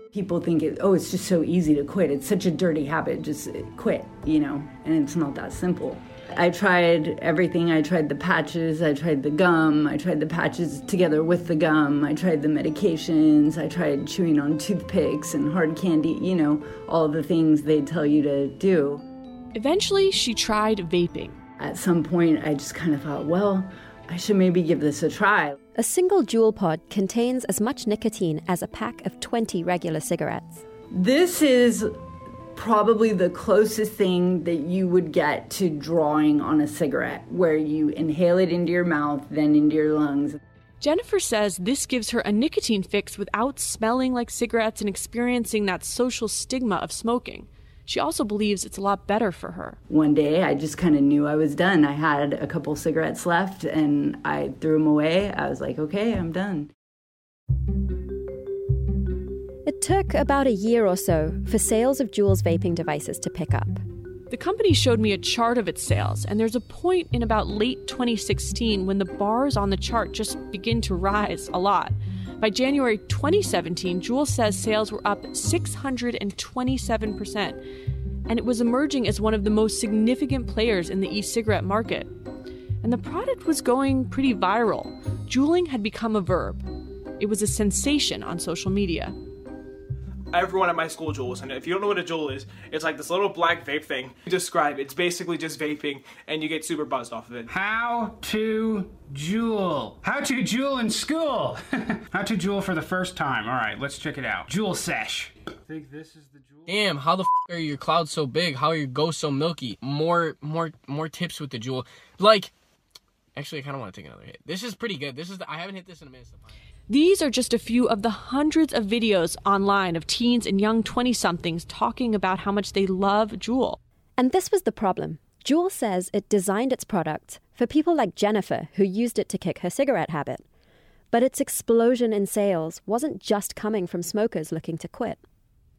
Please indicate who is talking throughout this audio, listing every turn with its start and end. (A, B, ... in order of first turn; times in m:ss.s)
0:00.1-0:19.0 A
0:19.5-0:21.4 B
0:21.6-0:25.6 A
0:25.8-0:30.6 C
0:30.9-0:32.0 A
0:32.5-0:40.4 A
0:40.8-0:49.8 B
0:49.9-0:56.7 A
0:59.6-1:03.8 C
1:04.3-1:17.6 B
1:18.3-1:22.1 B
1:22.8-1:26.6 B
1:27.2-1:29.2 B
1:30.3-1:37.5 D
1:37.5-1:46.3 E
1:46.7-1:52.5 F
1:53.4-1:56.5 F
1:56.9-2:03.8 B
2:04.2-2:10.4 C
2:11.1-2:15.2 C